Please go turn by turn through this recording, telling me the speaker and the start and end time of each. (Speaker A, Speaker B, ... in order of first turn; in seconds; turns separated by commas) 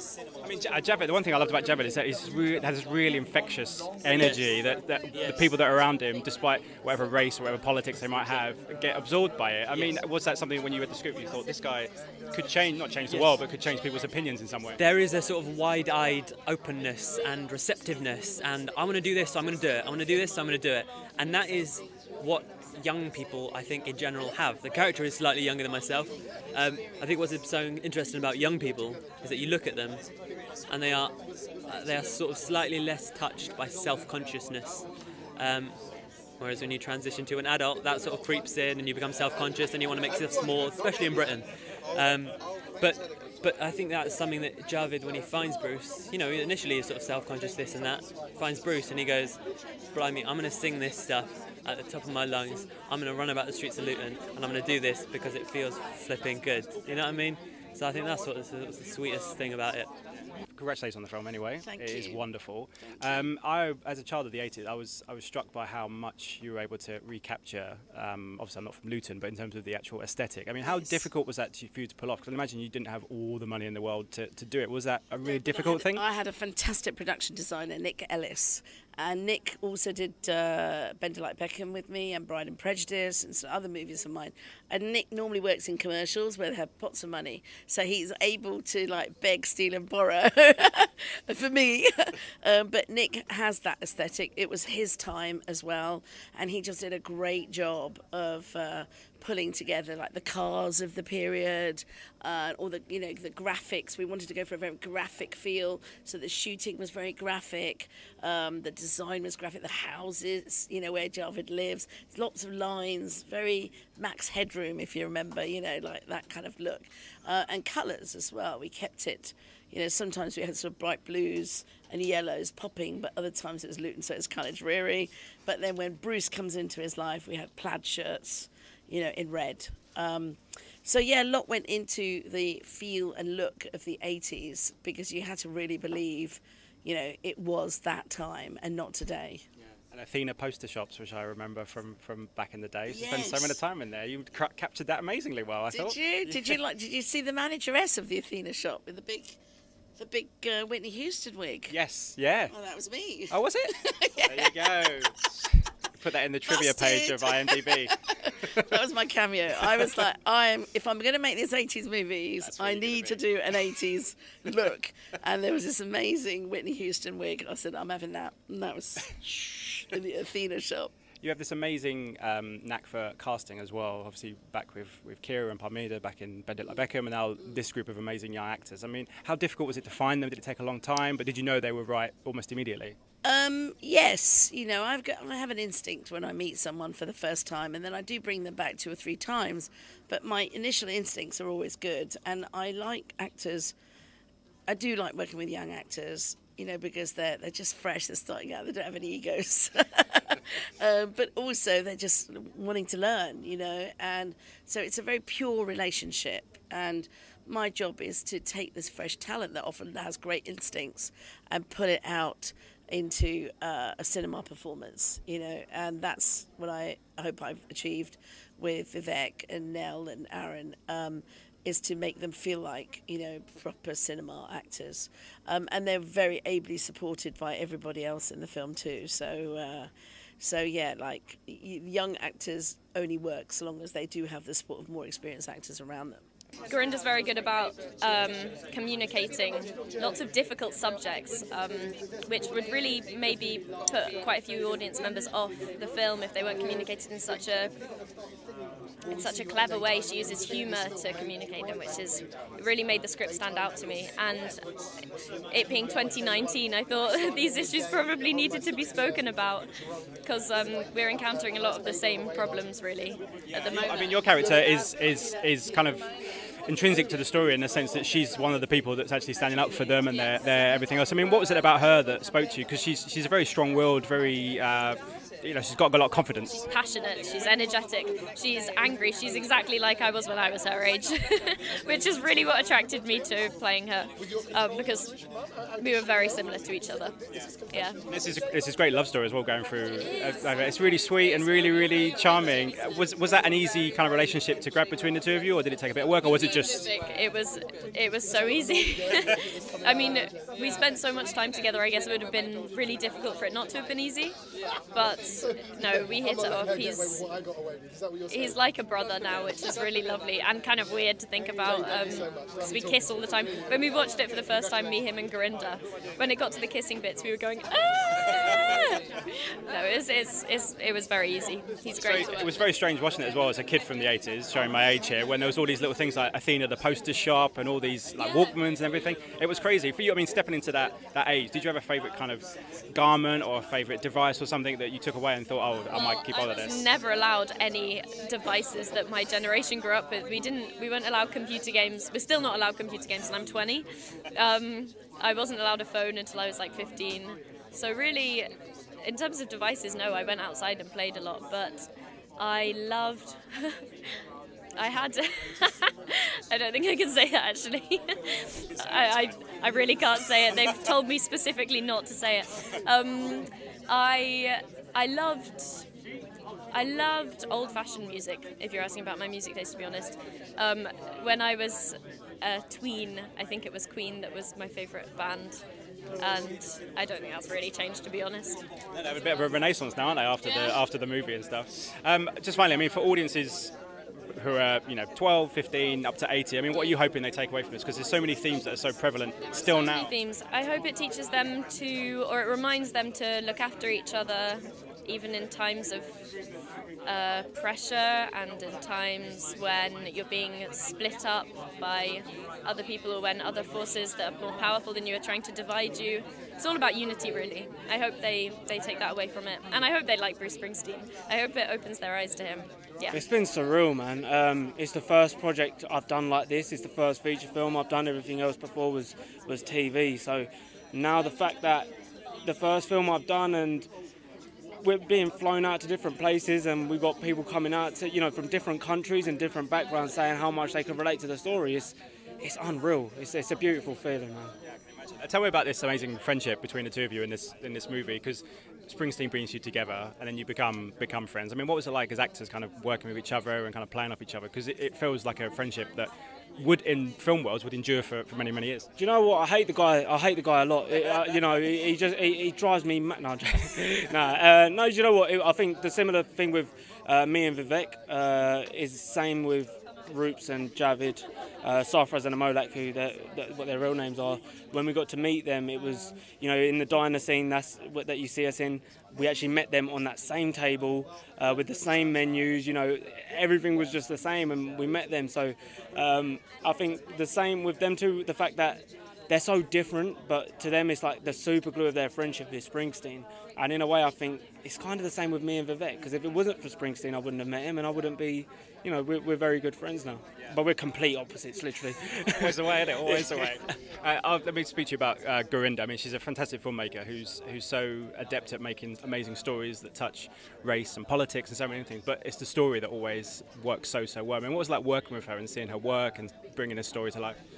Speaker A: 0.4-14.8, Speaker B: 4.1-4.4, Speaker B: 13.1-13.3, Speaker B: 14.8-30.1, Speaker B: 30.7-31.1, Speaker B: 31.7-34.8, Speaker B: 35.4-35.8, Speaker B: 36.4-49.4, Speaker B: 49.9-59.9, Speaker A: 60.5-76.0, Speaker C: 61.6-62.2, Speaker C: 62.8-63.2, Speaker C: 70.6-71.0, Speaker C: 75.4-139.4, Speaker A: 139.9-146.6, Speaker C: 142.9-143.6, Speaker C: 145.7-149.4, Speaker C: 150.0-151.8, Speaker A: 151.7-152.5, Speaker C: 152.5-154.7, Speaker A: 153.3-158.7, Speaker C: 156.5-170.9, Speaker A: 162.4-163.2, Speaker A: 171.2-182.9, Speaker C: 183.2-193.7, Speaker C: 194.7-236.2, Speaker D: 236.7-247.7, Speaker D: 249.1-254.6, Speaker D: 255.5-259.7, Speaker D: 260.2-264.1, Speaker A: 263.5-266.0, Speaker A: 266.7-276.6, Speaker D: 276.7-285.1, Speaker D: 285.8-287.1, Speaker D: 287.7-288.0, Speaker A: 288.1-296.9, Speaker D: 296.2-304.4, Speaker D: 304.9-307.2, Speaker D: 308.3-322.5, Speaker A: 322.0-336.8, Speaker D: 335.9-348.5, Speaker D: 349.0-351.9, Speaker D: 352.4-353.8, Speaker D: 354.8-365.8, Speaker D: 366.7-375.6, Speaker D: 376.2-378.6, Speaker A: 378.9-383.7, Speaker D: 380.4-380.8, Speaker A: 384.4-390.1, Speaker D: 389.7-396.1, Speaker D: 397.0-413.2, Speaker E: 413.1-421.9, Speaker E: 422.4-423.9, Speaker E: 424.8-434.5, Speaker A: 435.1-448.9, Speaker E: 449.0-493.4, Speaker A: 492.3-507.4